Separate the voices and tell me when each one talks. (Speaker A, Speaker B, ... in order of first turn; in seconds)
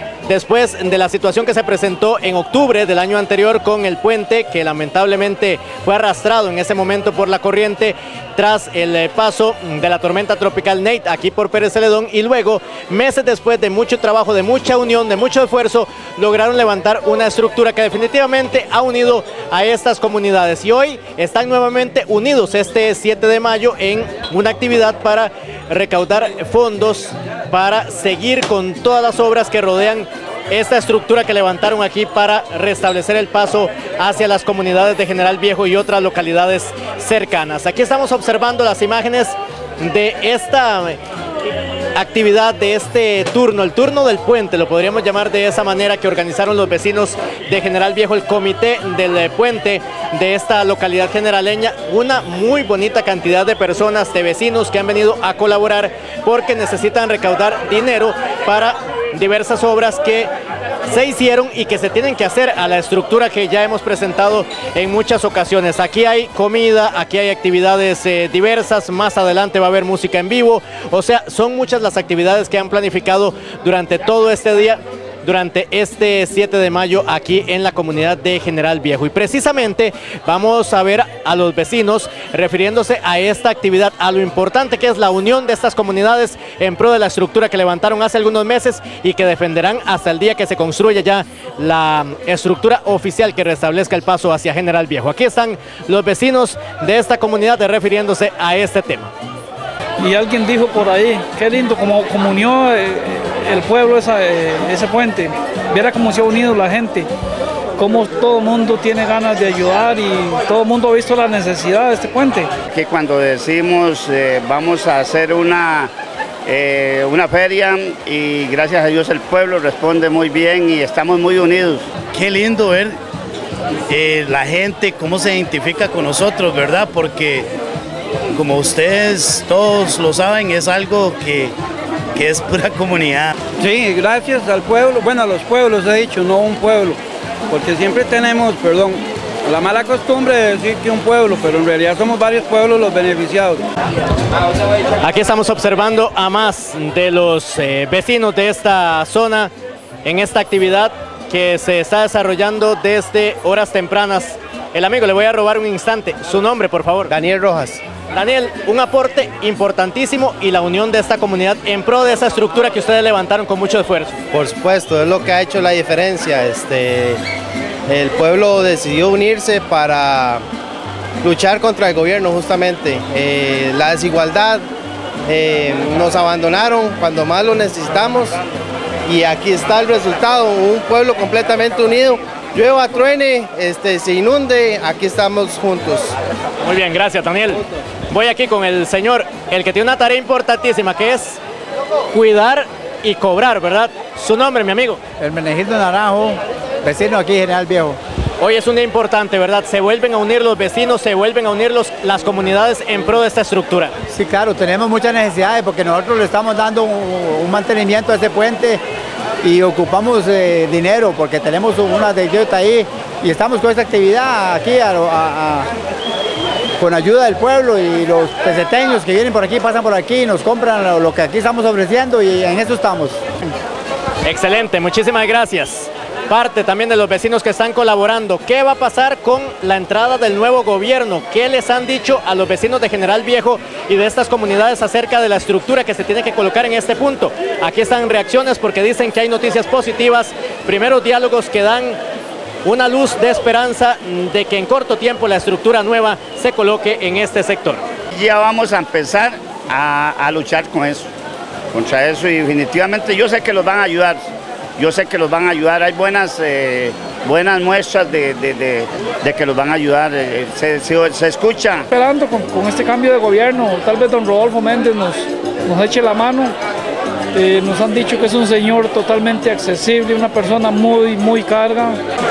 Speaker A: 0.2-41.0, 41.9-60.3, 60.9-99.1, 145.0-149.5, 150.0-157.1, 158.1-164.2, 186.6-191.4, 192.1-195.0, 198.4-203.9, 224.2-242.0, 242.6-247.8
Speaker B: 100.0-107.1, 107.8-112.5, 261.9-266.5, 267.3-272.0
Speaker C: 112.7-115.9, 116.5-121.8, 248.2-251.1, 251.7-254.3, 254.8-261.9
Speaker D: 122.1-123.0, 123.9-127.5, 128.3-131.5, 132.1-133.3
Speaker E: 133.6-137.0, 137.5-143.6
Speaker F: 157.1-157.8, 164.3-167.2, 167.9-170.4, 171.2-174.6, 175.3-178.4, 179.1-186.1
Speaker G: 195.2-198.0, 204.1-208.8, 209.4-215.7, 216.8-223.2